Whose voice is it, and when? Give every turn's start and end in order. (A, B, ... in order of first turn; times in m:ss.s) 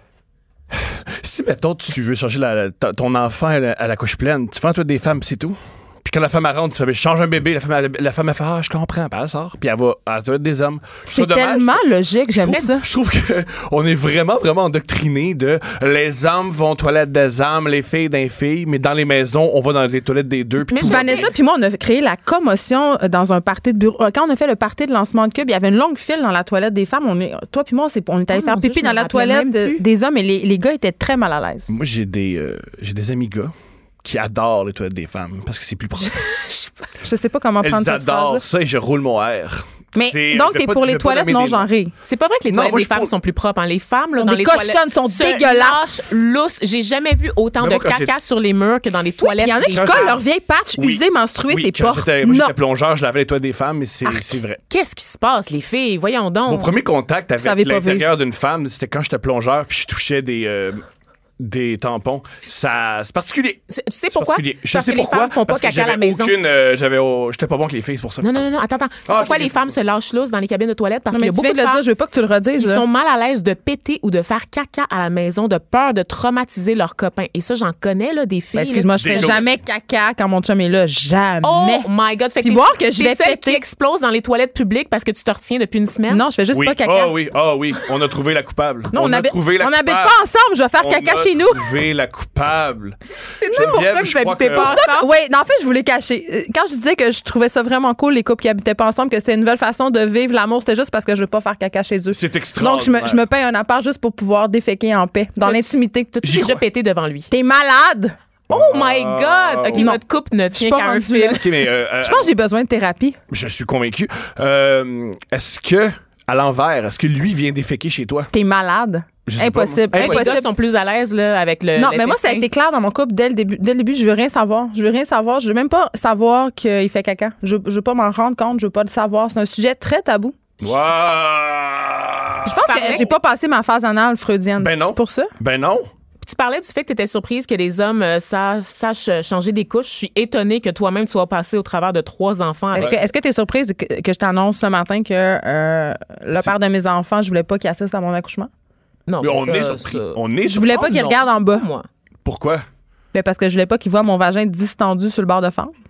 0:00.7-0:11.8 A
0:11.1-0:12.8 B
0:12.3-0:21.3 A
0:20.7-0:21.3 C
0:20.8-0:31.7 B
0:28.3-0:29.8 C
0:31.7-0:36.2 A
0:37.0-0:38.4 B
0:37.6-0:41.7 A
0:39.9-0:41.9 B
0:42.1-0:50.2 C
0:42.5-0:43.1 A
0:44.2-0:46.1 B
0:47.6-0:48.1 A
0:49.2-0:52.5 B
0:49.7-0:50.2 A
0:50.8-0:54.6 A
0:54.7-0:56.7 C
0:56.5-1:00.8 A
0:57.4-0:58.1 B
1:01.4-1:03.6 A
1:03.7-1:06.4 C
1:04.1-1:08.3 A
1:08.2-1:11.8 C
1:09.1-1:09.6 A
1:11.1-1:12.8 B
1:12.6-1:19.4 C
1:18.6-1:21.9 B
1:18.9-1:19.4 A
1:21.4-1:26.2 C
1:22.4-1:23.6 B
1:26.1-1:27.2 B
1:26.5-1:30.2 A
1:28.9-1:31.8 B
1:30.8-1:34.8 A
1:33.4-1:35.1 C
1:34.4-1:46.5 B
1:42.1-1:43.2 A
1:45.4-1:47.3 C
1:46.2-1:46.6 A
1:47.3-1:48.2 B
1:48.5-1:50.0 A
1:48.5-1:51.4 C
1:50.5-1:53.2 B
1:51.4-1:52.3 A
1:53.3-1:58.3 A
1:58.3-2:00.5 B
1:59.3-2:00.4 A
1:59.9-2:02.5 C
2:01.8-2:10.4 B
2:10.6-2:13.1 A
2:12.4-2:15.3 B
2:12.5-2:13.1 C
2:14.6-2:15.9 A
2:16.2-2:22.9 C
2:22.7-2:28.5 B
2:22.8-2:23.0 A
2:29.1-2:31.9 C
2:29.2-2:31.0 A
2:30.5-2:31.7 B
2:32.2-2:32.6 A
2:33.1-2:35.7 B